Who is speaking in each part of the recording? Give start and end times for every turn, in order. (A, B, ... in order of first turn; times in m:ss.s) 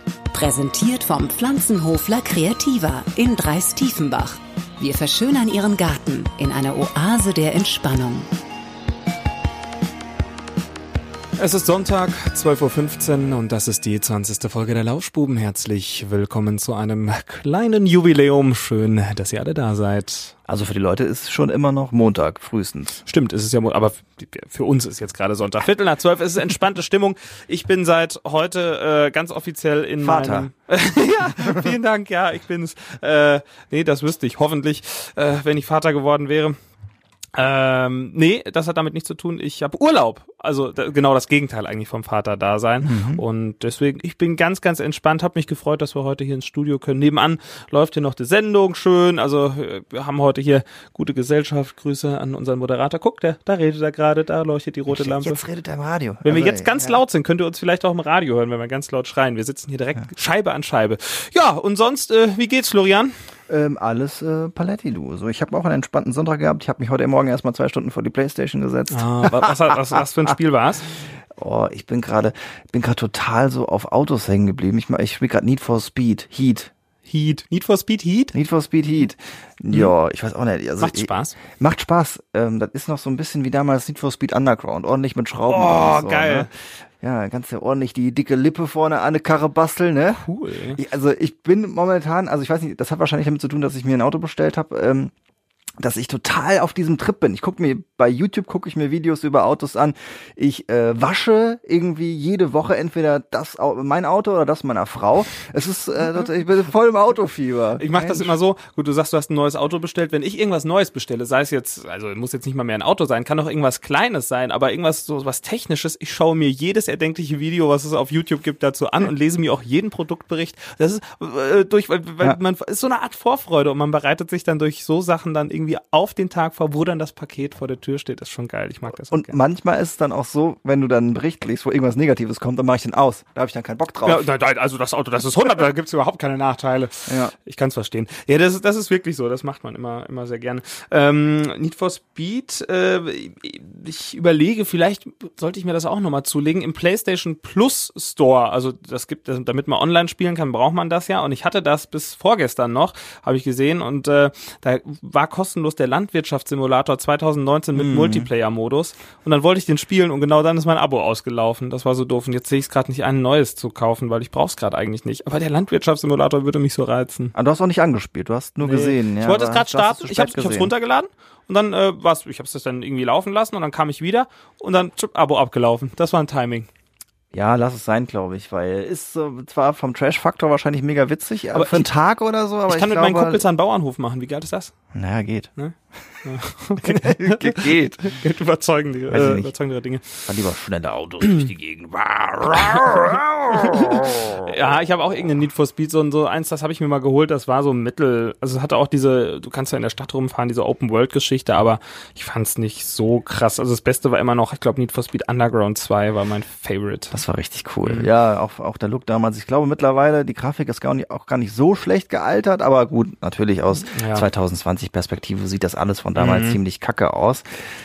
0:00.3-0:08.3 A
0:11.4-0:20.3 B
0:20.5-0:23.0 C
0:23.0-0:36.6 B
0:30.0-0:30.5 C
0:37.3-0:55.4 B
0:42.8-0:43.2 C
0:54.9-0:57.0 C
0:56.2-1:03.1 B
1:03.5-1:10.3 C
1:08.9-1:10.9 B
1:11.3-1:16.7 C
1:17.0-1:18.3 B
1:18.3-1:26.5 C
1:20.8-1:21.4 B
1:25.5-1:26.5 B
1:27.0-1:35.1 C
1:30.2-1:30.8 B
1:35.8-1:48.3 C
1:47.8-2:09.3 B
2:09.1-2:14.3 C
2:14.0-2:47.3 B
2:17.1-2:17.3 C
2:37.8-2:38.3 C
2:47.3-2:50.7 C
2:48.6-2:56.7 B
2:57.3-3:03.4 C
3:01.5-3:01.9 B
3:02.7-3:04.7 B
3:04.9-3:05.5 C
3:05.6-3:10.3 B
3:06.8-3:08.1 C
3:09.1-3:09.5 C
3:10.2-3:14.5 C
3:11.2-3:11.5 B
3:12.4-3:27.2 B
3:27.1-3:37.4 C
3:33.9-3:34.3 B
3:36.2-3:36.6 B